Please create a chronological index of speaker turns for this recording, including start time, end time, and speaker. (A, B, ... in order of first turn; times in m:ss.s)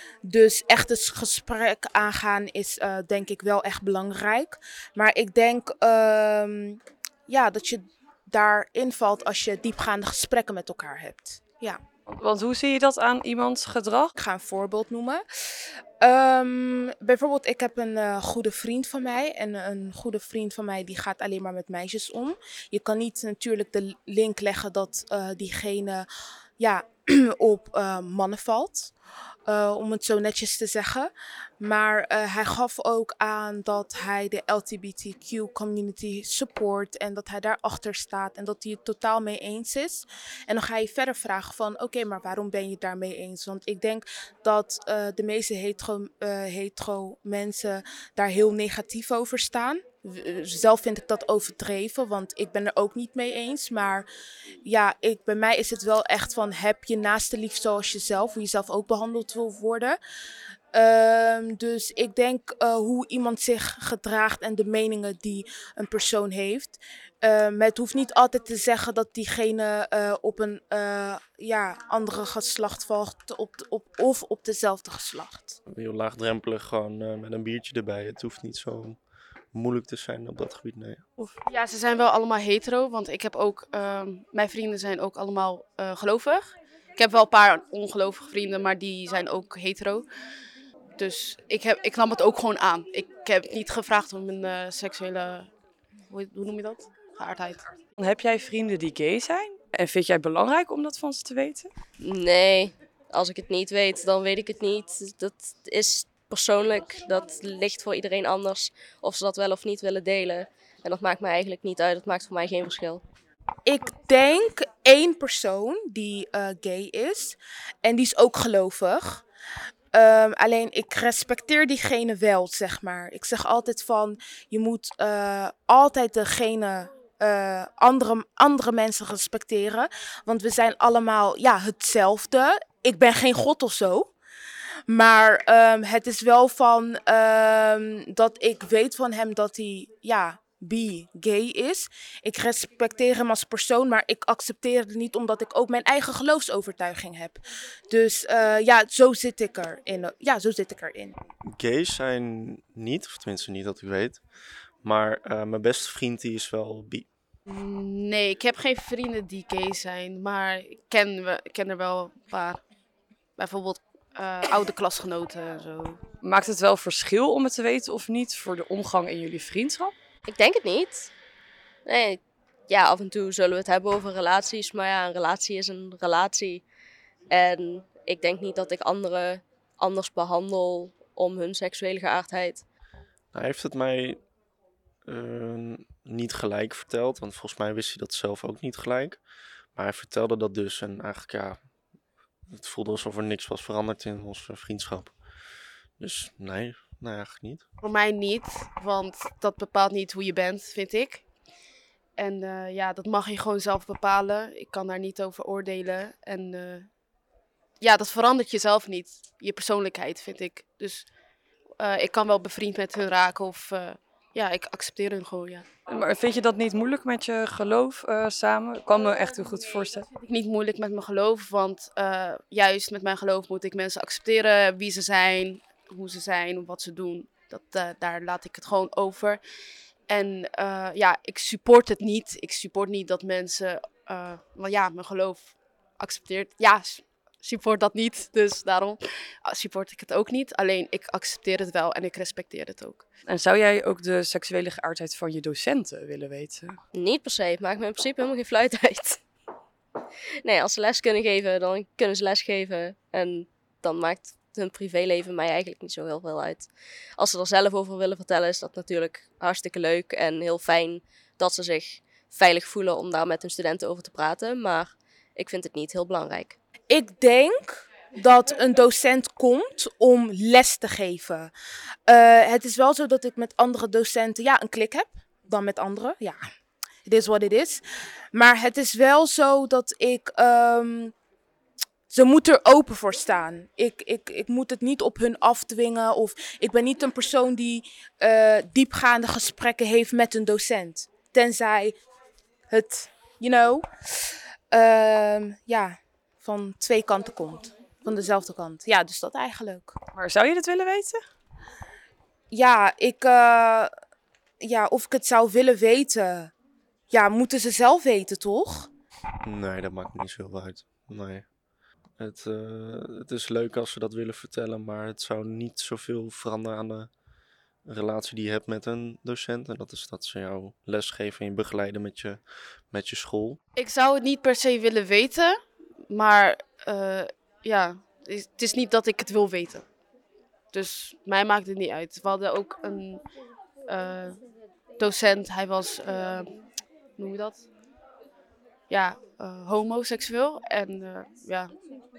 0:00.2-0:11.8 A
0:12.1-0:14.1 B
0:14.2-0:15.2 A
0:16.0-0:26.1 A
0:26.6-0:28.9 A
0:29.5-0:54.1 A
0:54.7-1:00.0 A
1:00.7-1:15.6 A
1:15.7-1:19.0 C
1:19.5-1:21.0 C
1:21.5-1:30.1 D
1:31.0-1:35.5 D
1:36.1-1:37.7 D
1:38.0-1:41.7 B
1:42.0-1:53.0 E
1:53.7-1:59.2 A
1:59.9-2:14.1 A
2:14.9-2:31.2 A
2:31.6-2:34.2 C
2:34.8-2:37.1 C
2:37.5-2:42.6 D
2:43.4-2:46.0 D
2:46.2-2:49.9 B
2:50.3-2:51.1 E
2:51.9-2:56.6 E
2:57.3-3:02.6 E
3:03.3-3:04.2 C
3:05.1-3:09.2 C
3:09.8-3:11.6 C
3:12.5-3:15.1 C
3:16.0-3:17.6 C
3:17.8-3:21.2 D
3:22.2-3:26.9 D
3:27.8-3:31.1 D
3:31.8-3:35.7 D
3:35.9-3:40.1 B
3:40.2-3:49.4 D
3:50.1-4:03.0 D
4:03.3-4:06.8 B
4:06.9-4:09.2 E
4:10.4-4:26.6 E
4:26.9-4:31.5 A
4:32.1-4:36.4 A
4:37.1-4:37.8 A
4:38.3-4:41.1 A
4:42.1-4:52.0 A
4:52.7-5:00.0 A
5:00.1-5:01.2 B
5:02.5-5:03.9 A
5:04.6-5:06.5 A
5:07.1-5:08.9 A
5:09.4-5:11.4 C
5:12.2-5:17.1 C
5:17.9-5:23.6 C
5:23.8-5:25.6 D
5:26.1-5:29.9 D
5:30.7-5:33.2 D
5:33.9-5:34.4 D
5:35.0-5:36.5 D
5:37.2-5:37.7 D
5:38.9-5:41.7 D